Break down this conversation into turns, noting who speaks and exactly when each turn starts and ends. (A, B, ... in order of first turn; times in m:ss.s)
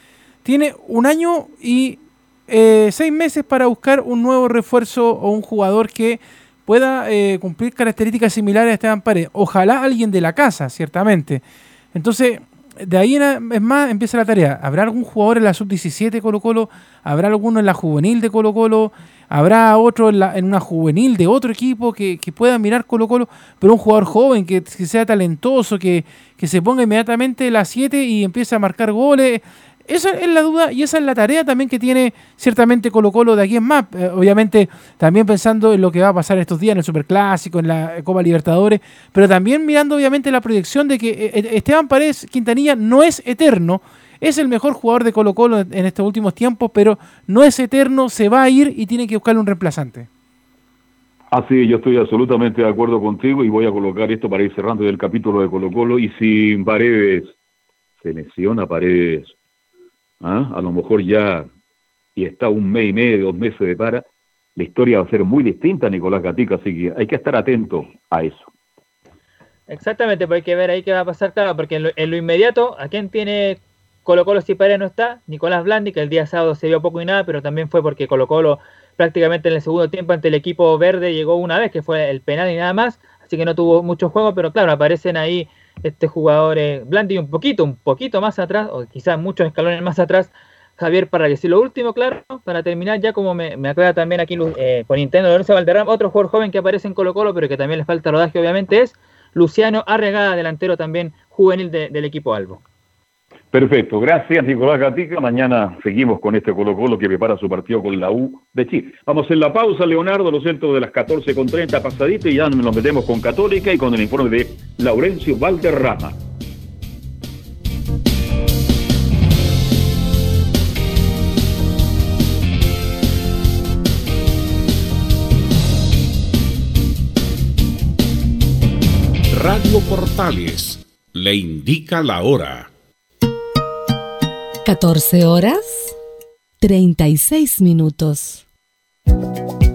0:00.4-0:11.4 A
0:11.9-0:50.1 A
0:51.3-0:57.3 B
0:58.0-0:59.3 B
1:00.2-1:01.5 B
1:02.2-1:04.0 B
1:04.6-1:08.5 B
1:09.7-1:42.6 C
1:43.5-1:56.2 B
2:09.3-2:12.7 D
2:14.6-2:15.9 E
2:16.6-2:18.4 E